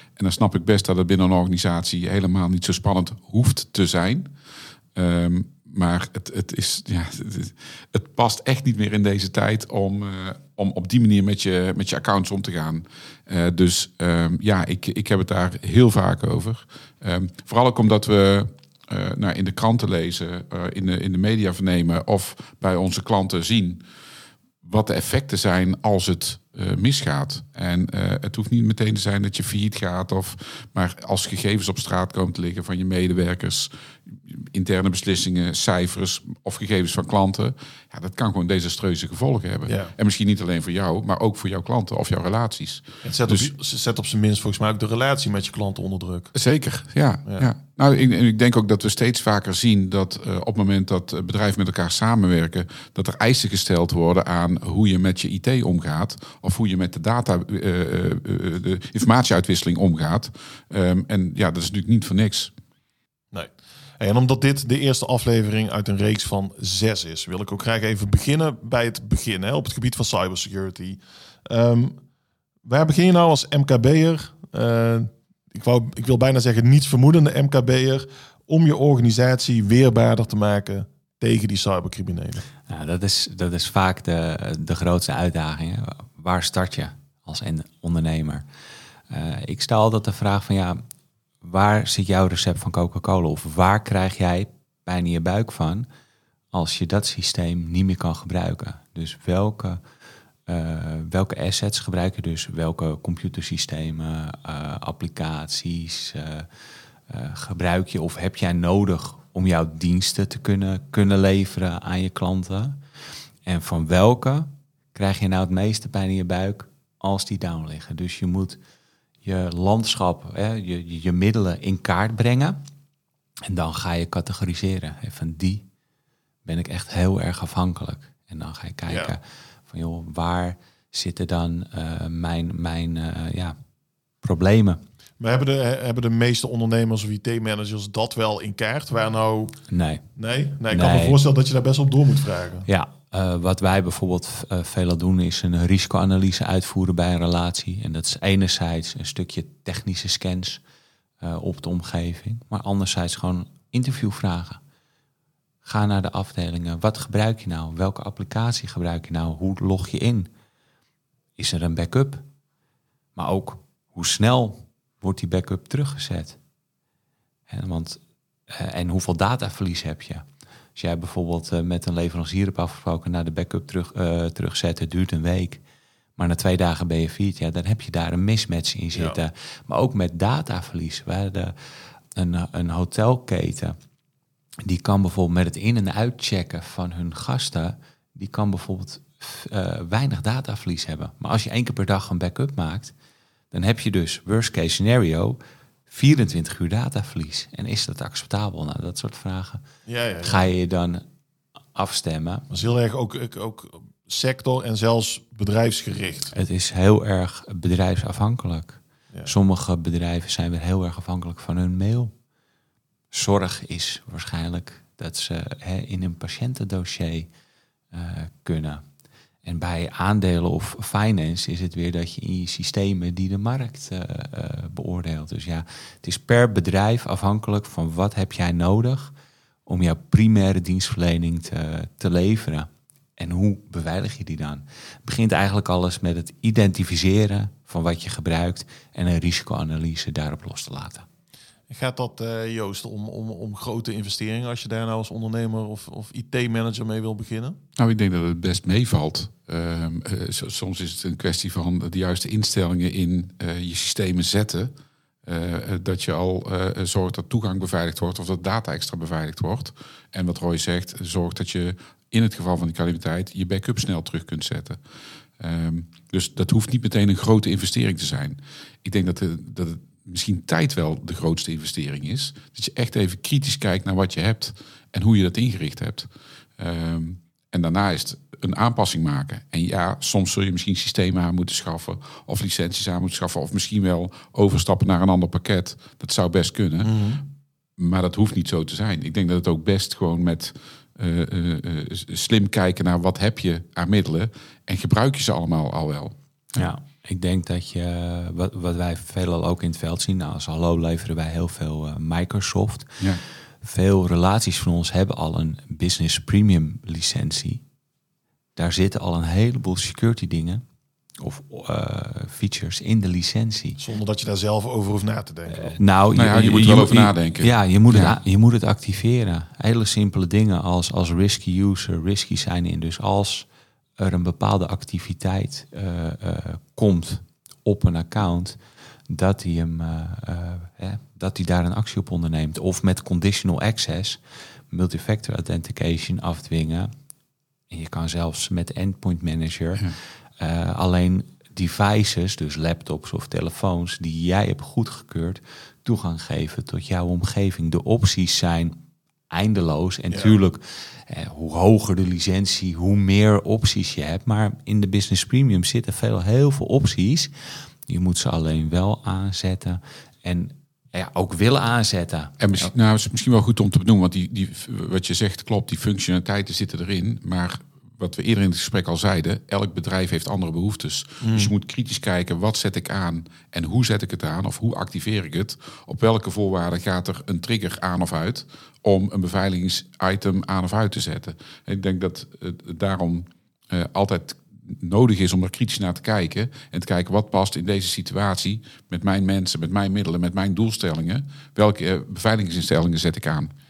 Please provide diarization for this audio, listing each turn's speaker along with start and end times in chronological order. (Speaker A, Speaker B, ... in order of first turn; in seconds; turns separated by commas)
Speaker A: 0.2-4.3, Speaker A: 5.0-23.8, Speaker A: 24.6-43.5, Speaker B: 43.0-46.3, Speaker A: 46.3-62.5, Speaker B: 63.3-72.0, Speaker B: 72.7-82.5, Speaker C: 82.7-88.4, Speaker C: 89.1-90.8, Speaker C: 91.4-95.9, Speaker C: 96.5-99.8, Speaker C: 100.5-106.5, Speaker C: 107.1-112.8, Speaker C: 113.5-118.6, Speaker C: 119.2-122.6, Speaker C: 123.5-125.7, Speaker C: 126.5-133.6, Speaker B: 128.9-129.1, Speaker C: 134.2-134.8, Speaker B: 135.2-139.6, Speaker C: 139.7-140.1, Speaker B: 140.2-142.7, Speaker C: 140.7-141.2, Speaker C: 142.7-150.6, Speaker C: 151.2-154.6, Speaker C: 155.6-160.3, Speaker C: 161.4-162.2, Speaker C: 163.2-166.4, Speaker C: 167.5-175.6, Speaker C: 176.2-181.6, Speaker C: 182.1-183.8, Speaker C: 184.7-192.9, Speaker C: 193.5-199.6, Speaker B: 199.9-200.5, Speaker C: 200.2-201.0, Speaker C: 201.8-202.5, Speaker B: 202.5-206.3, Speaker C: 206.3-212.1, Speaker C: 213.1-217.3, Speaker C: 217.9-218.8, Speaker C: 219.4-229.1, Speaker C: 229.7-241.1, Speaker B: 241.7-247.6, Speaker A: 247.8-254.7, Speaker A: 255.2-264.8, Speaker A: 265.4-287.1, Speaker B: 286.8-287.2, Speaker A: 287.8-296.7, Speaker C: 296.6-307.6, Speaker C: 308.6-310.6, Speaker C: 311.2-313.8, Speaker B: 313.8-315.8, Speaker C: 315.5-323.5, Speaker A: 316.2-318.2, Speaker C: 324.0-336.9, Speaker C: 337.7-348.8, Speaker C: 349.3-357.3, Speaker B: 350.1-350.4, Speaker C: 357.9-362.7, Speaker A: 362.4-393.5, Speaker B: 371.2-371.5